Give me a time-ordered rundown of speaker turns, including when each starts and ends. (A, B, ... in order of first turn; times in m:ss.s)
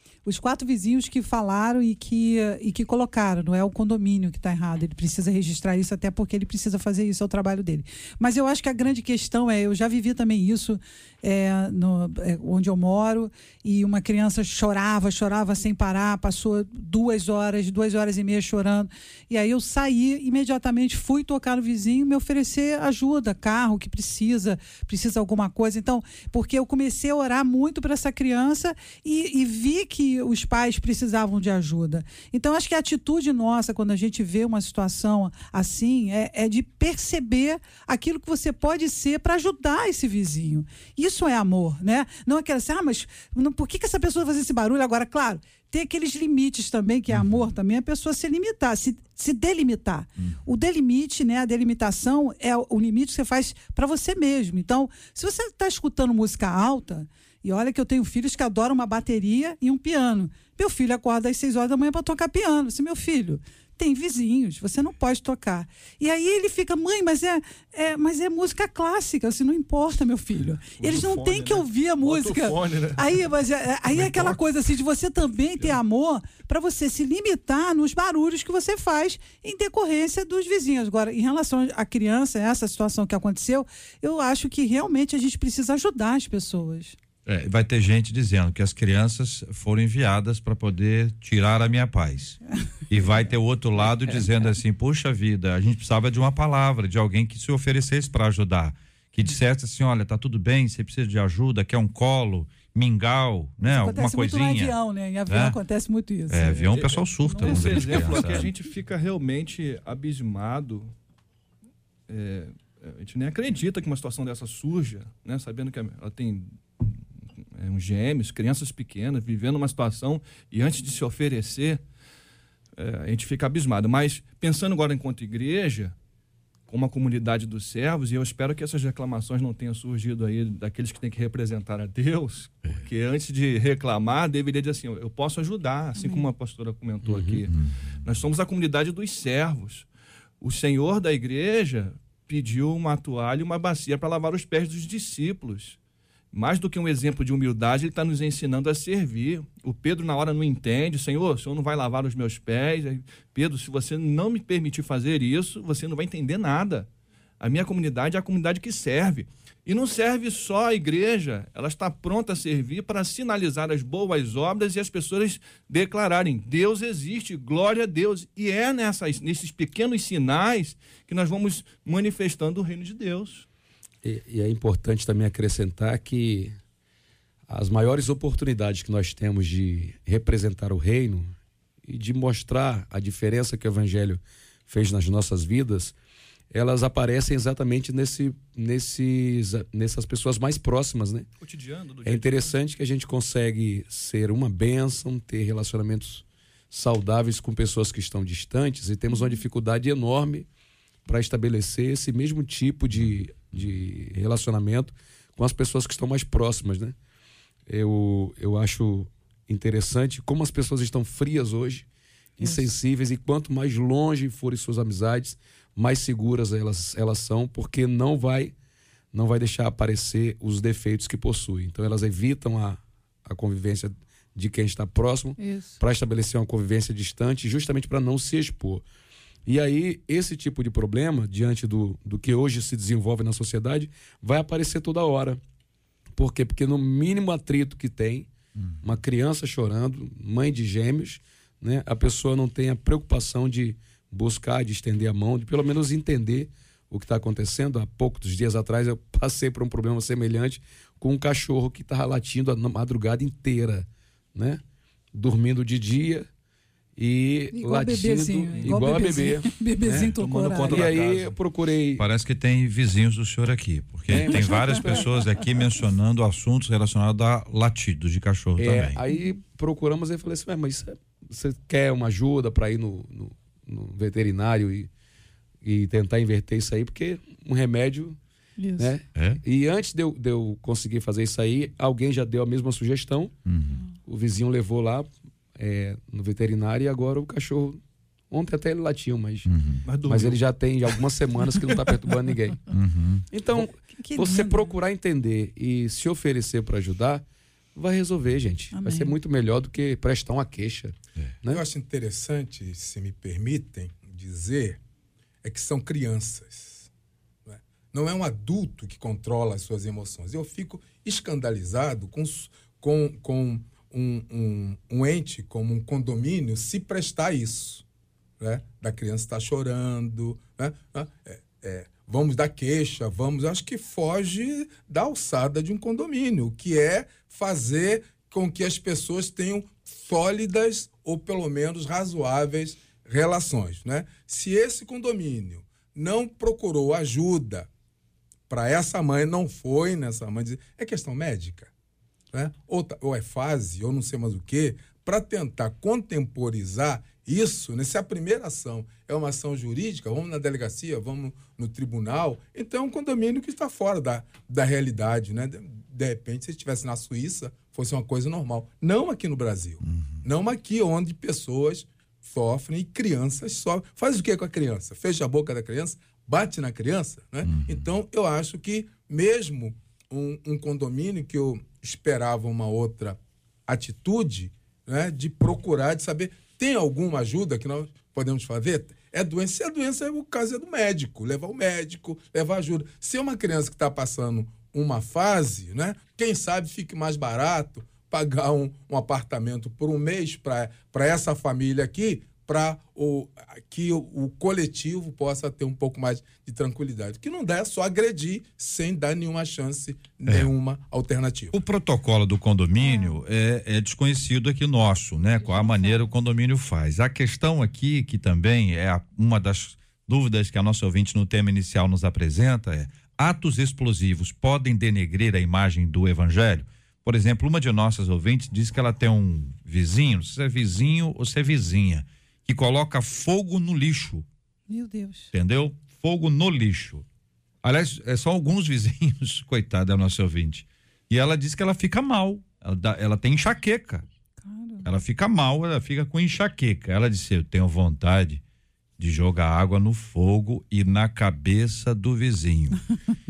0:00.2-1:27.0 A
0:47.1-0:47.5 B
1:10.8-1:13.2 C
1:13.9-1:14.4 C
1:27.2-1:32.4 B
1:32.9-1:44.7 B
1:43.6-1:48.5 A
1:45.3-1:45.6 B
1:46.3-1:48.5 B
1:46.6-1:50.9 C
1:52.1-2:01.8 C
2:02.8-2:05.9 C
2:06.7-2:17.5 C
2:16.0-2:16.3 A
2:17.0-2:17.4 D
2:17.5-2:18.0 B
2:18.0-2:19.9 C
2:20.4-2:25.8 C
2:26.3-2:36.9 C
2:37.4-2:53.4 C
2:54.0-2:56.6 D
2:57.5-3:06.0 D
3:06.5-3:11.3 D
3:11.4-3:12.6 C
3:12.0-3:20.5 D
3:21.0-3:26.9 D
3:27.7-3:31.8 D
3:32.4-3:38.5 D
3:39.1-3:48.8 D
3:45.4-3:45.8 A
3:49.4-3:55.4 D
3:56.1-3:58.3 D
3:58.8-4:14.6 D
4:15.1-4:16.3 D
4:17.0-4:22.0 D
4:17.5-4:20.9 A
4:19.9-4:21.4 C
4:22.0-4:29.0 B
4:24.1-4:25.1 D
4:24.3-4:25.2 A
4:28.6-4:34.9 D
4:35.6-4:38.2 D
4:38.6-4:38.9 A
4:38.8-4:43.3 D
4:43.5-4:43.8 B
4:44.0-4:49.5 D
4:49.4-4:49.8 B
4:49.8-4:50.4 C
4:50.0-4:52.6 D
4:52.7-4:53.2 B
4:53.3-5:01.6 D
4:53.9-4:54.8 A
4:58.7-4:59.1 A
5:01.5-5:04.8 E
5:05.4-5:06.9 E
5:07.4-5:17.8 E
5:18.4-5:37.7 E
5:38.5-5:41.7 E
5:42.3-6:41.5 E
5:59.8-6:00.2 B
6:07.4-6:07.9 B
6:41.5-7:04.2 B
6:42.8-6:43.2 A
6:45.4-6:46.1 A
7:04.7-7:05.3 A
7:05.3-7:07.0 B
7:07.6-7:14.0 B
7:14.4-7:14.9 A
7:14.8-7:18.4 B
7:19.0-7:22.8 B